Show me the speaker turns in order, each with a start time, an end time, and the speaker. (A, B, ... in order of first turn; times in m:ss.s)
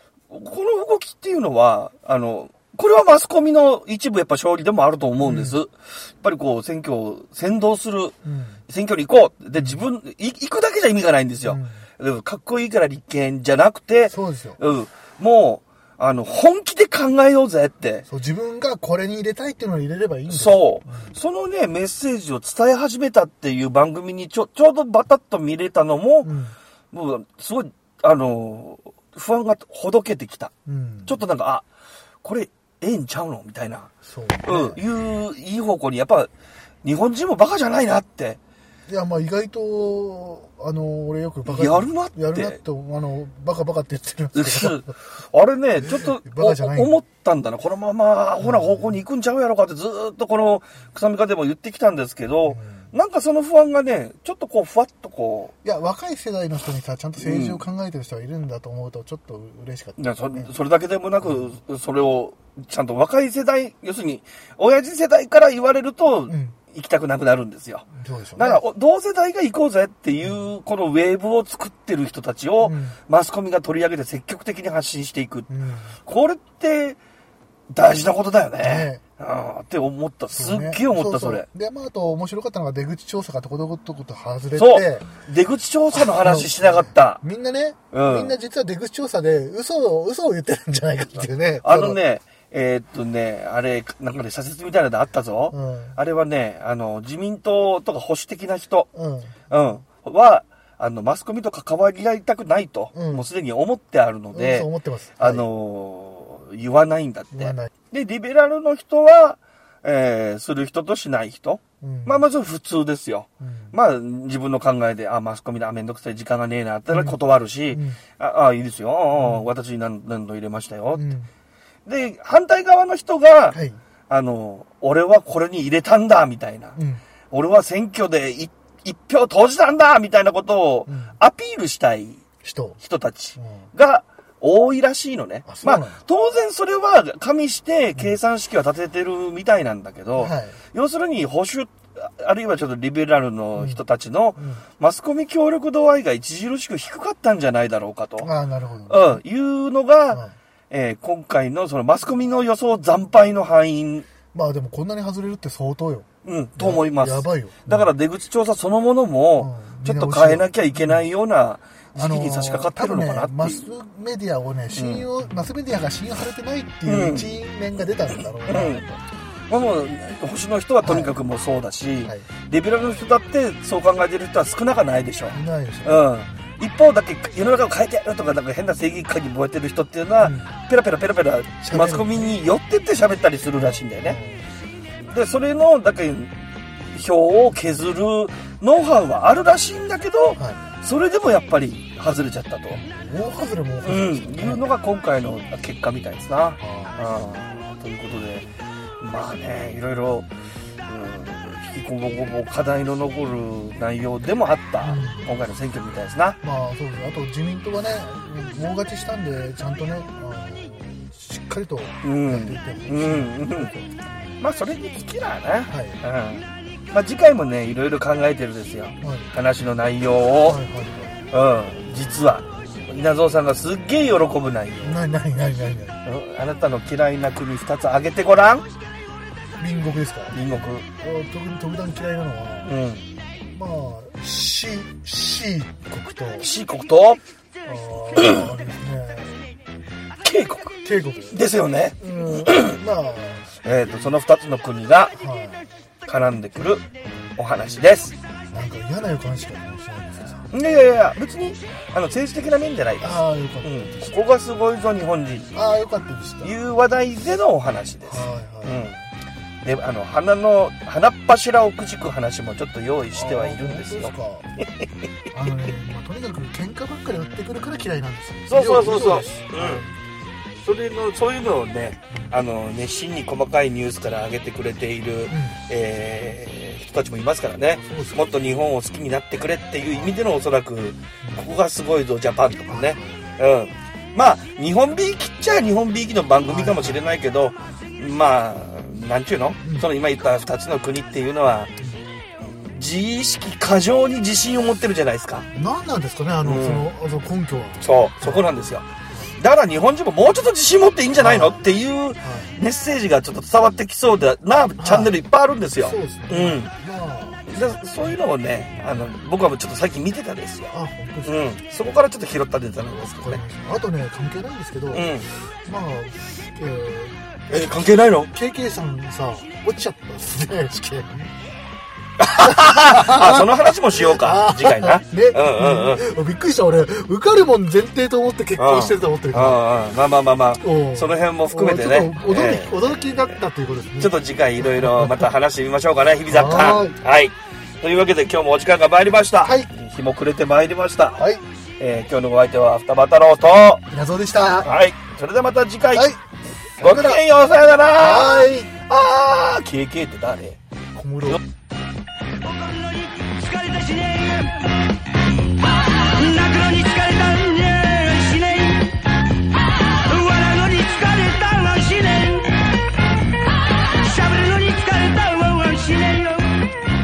0:00.3-0:08.2 A
0:05.2-0:05.6 B
0:08.2-0:08.6 B
0:08.7-0:18.1 A
0:11.4-0:11.8 B
0:14.1-0:14.6 B
0:18.1-0:21.2 B
0:20.3-0:26.3 A
0:26.2-0:26.6 B
0:26.9-0:30.5 A
0:30.7-0:31.2 B
0:31.1-0:31.6 A
0:32.2-0:33.9 A
0:34.0-0:34.8 B
0:34.4-0:36.3 A
0:36.8-0:38.4 A
0:38.9-0:44.9 B
0:41.5-0:42.6 A
0:44.4-0:55.5 A
0:45.9-0:47.0 B
0:48.4-0:49.0 B
0:52.5-0:52.9 B
0:55.6-1:00.5 B
0:57.2-0:57.6 A
1:00.0-1:15.5 A
1:01.2-1:01.5 B
1:06.3-1:06.6 B
1:07.9-1:08.6 B
1:12.6-1:13.0 B
1:15.5-1:16.0 B
1:16.0-1:17.0 A
1:17.7-1:21.5 A
1:18.6-1:19.0 B
1:20.3-1:25.1 B
1:24.6-1:27.2 A
1:25.9-1:32.0 B
1:27.9-1:28.4 A
1:31.6-1:38.9 A
1:35.5-1:36.0 B
1:38.9-1:39.4 B
1:39.5-2:01.1 A
1:42.9-1:43.2 B
1:44.3-1:45.5 B
1:47.3-1:47.7 B
1:51.8-1:52.3 B
1:53.4-1:53.8 B
1:56.9-1:57.2 B
1:57.7-1:58.0 B
1:59.2-1:59.5 B
2:01.0-2:01.3 B
2:01.9-2:03.6 A
2:03.5-2:03.8 B
2:04.1-2:06.8 A
2:06.8-2:07.0 B
2:07.3-2:12.2 A
2:10.9-2:11.2 B
2:12.4-2:12.8 B
2:12.8-2:28.3 A
2:13.4-2:13.7 B
2:15.5-2:16.0 B
2:20.2-2:20.6 B
2:24.4-2:24.6 B
2:28.2-2:29.2 B
2:28.9-2:34.1 A
2:30.1-2:30.4 B
2:34.3-2:37.9 B
2:36.2-2:43.7 A
2:39.4-2:41.0 B
2:42.0-2:49.0 B
2:44.7-2:45.1 A
2:46.8-2:47.4 A
2:48.5-2:48.8 A
2:49.5-3:04.2 A
2:50.8-2:51.2 B
2:55.3-2:56.4 B
3:00.2-3:00.5 B
3:01.6-3:02.3 B
3:03.6-3:04.5 B
3:05.0-3:06.4 A
3:06.9-3:12.8 A
3:10.4-3:10.6 B
3:12.7-3:14.6 B
3:13.8-3:20.3 A
3:16.6-3:17.1 B
3:20.8-3:26.4 A
3:24.8-3:25.3 B
3:26.4-3:34.3 B
3:32.0-3:33.7 A
3:34.4-3:40.6 A
3:35.7-3:36.0 B
3:39.0-3:39.3 B
3:40.4-3:41.2 B
3:41.3-3:45.0 A
3:44.8-3:46.0 B
3:46.0-3:48.7 A
3:49.6-3:52.8 B
3:50.3-3:50.9 A
3:52.6-3:53.1 A
3:53.5-3:56.5 B
3:56.4-3:57.2 A
3:57.6-3:59.4 B
3:58.2-3:58.4 A
4:00.2-4:02.8 A
4:00.8-4:01.4 B
4:02.0-4:03.5 B
4:03.6-4:05.2 A
4:05.2-4:05.7 B
4:06.0-4:06.8 A
4:07.4-4:08.2 A
4:08.5-4:10.5 B
4:10.5-4:15.5 A
4:13.0-4:14.2 B
4:15.5-4:16.5 B
4:16.4-4:18.9 A
4:18.1-4:19.1 B
4:19.6-4:24.9 A
4:23.1-4:24.5 B
4:25.3-4:30.0 B
4:28.5-4:29.9 A
4:30.6-4:51.8 A
4:32.1-4:32.4 B
4:35.3-4:35.6 B
4:37.8-4:38.2 B
4:42.7-4:43.4 B
4:46.5-4:47.1 B
4:49.6-4:49.9 B
4:52.4-4:55.5 A
4:55.5-4:58.5 B
4:56.4-4:56.9 A
4:57.8-5:06.7 A
5:01.2-5:01.6 B
5:02.2-5:02.6 B
5:04.8-5:05.2 B
5:05.8-5:08.2 B
5:07.5-5:10.7 A
5:10.7-5:11.6 B
5:11.2-5:13.4 A
5:12.9-5:21.3 B
5:14.9-5:15.3 A
5:17.5-5:18.3 A
5:22.2-5:26.0 A
5:22.4-5:29.7 B
5:28.6-5:33.2 A
5:30.6-5:35.3 B
5:34.0-5:41.3 A
5:36.3-5:37.0 B
5:39.4-5:39.7 B
5:41.2-5:41.4 B
5:41.8-5:43.8 A
5:43.9-5:44.7 B
5:44.6-5:46.1 A
5:45.9-5:46.2 B
5:46.8-5:50.6 A
5:46.8-5:47.2 B
5:48.0-5:48.8 B
5:51.0-5:51.4 B
5:52.4-5:55.0 C
5:55.6-6:02.6 C
6:03.8-6:06.6 C